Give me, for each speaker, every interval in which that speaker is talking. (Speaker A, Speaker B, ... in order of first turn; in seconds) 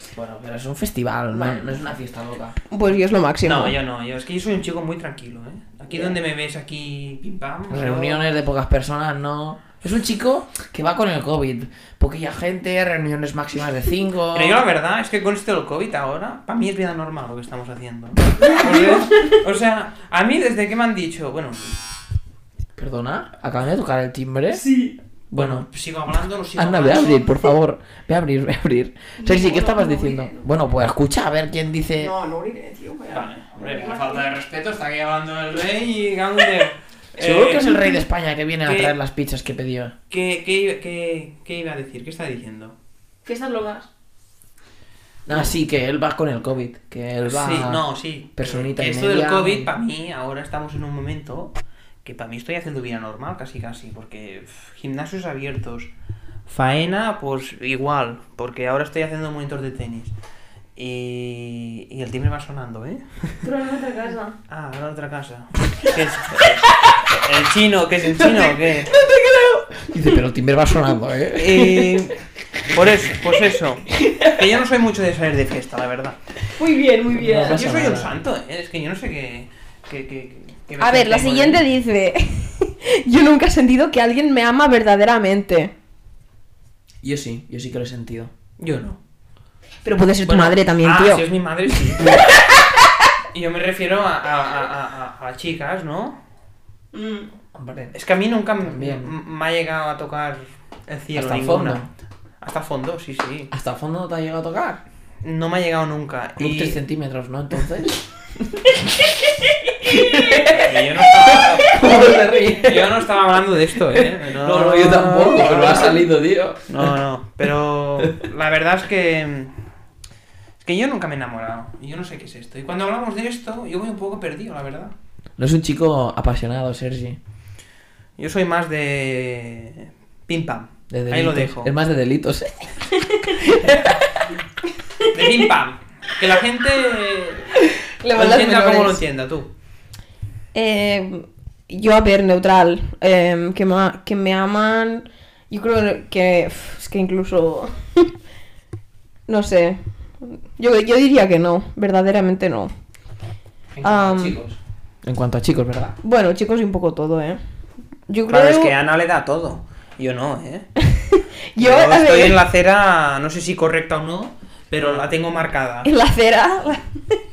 Speaker A: 0.1-2.6, 7.7-14.6, 22.8-24.6, 25.3-25.7, 26.6-32.1, 37.2-39.9, 45.2-47.8, 48.4-49.7, 69.8-72.1, 77.1-78.1, 87.0-88.3, 97.5-97.9, 98.6-99.1, 101.1-101.9, 103.5-104.8, 106.4-113.1, 113.7-117.0, 118.0-118.2, 125.4-127.2, 130.9-132.7, 133.2-134.1, 153.7-156.0, 164.8-165.1
Speaker B: 1.3-1.6, 2.7-3.8, 18.4-19.4, 24.5-24.9, 29.2-30.4, 32.0-34.3, 43.2-43.9, 63.4-64.3, 68.2-70.1, 76.5-77.6, 80.8-85.7, 89.8-92.8, 96.9-97.3, 133.0-133.4, 137.7-139.0, 140.5-148.1, 149.3-152.7, 153.8-154.4, 156.0-157.4, 158.1-158.7, 160.8-162.4, 165.8-167.2
Speaker C: 3.4-8.2, 14.3-21.8, 25.3-27.4, 33.1-37.8, 38.6-38.9, 40.1-42.7, 47.3-55.9, 56.5-60.1, 60.8-63.4, 64.5-68.9, 71.3-72.2, 72.7-76.2, 77.4-81.6, 88.6-89.0, 90.2-92.3, 93.3-96.2, 97.9-101.8, 102.4-103.5, 105.2-106.8, 110.5-111.8, 112.6-116.1, 116.7-119.5, 120.6-124.9, 128.2-131.7, 135.1-137.5, 138.1-139.5, 158.3-160.7, 161.6-165.9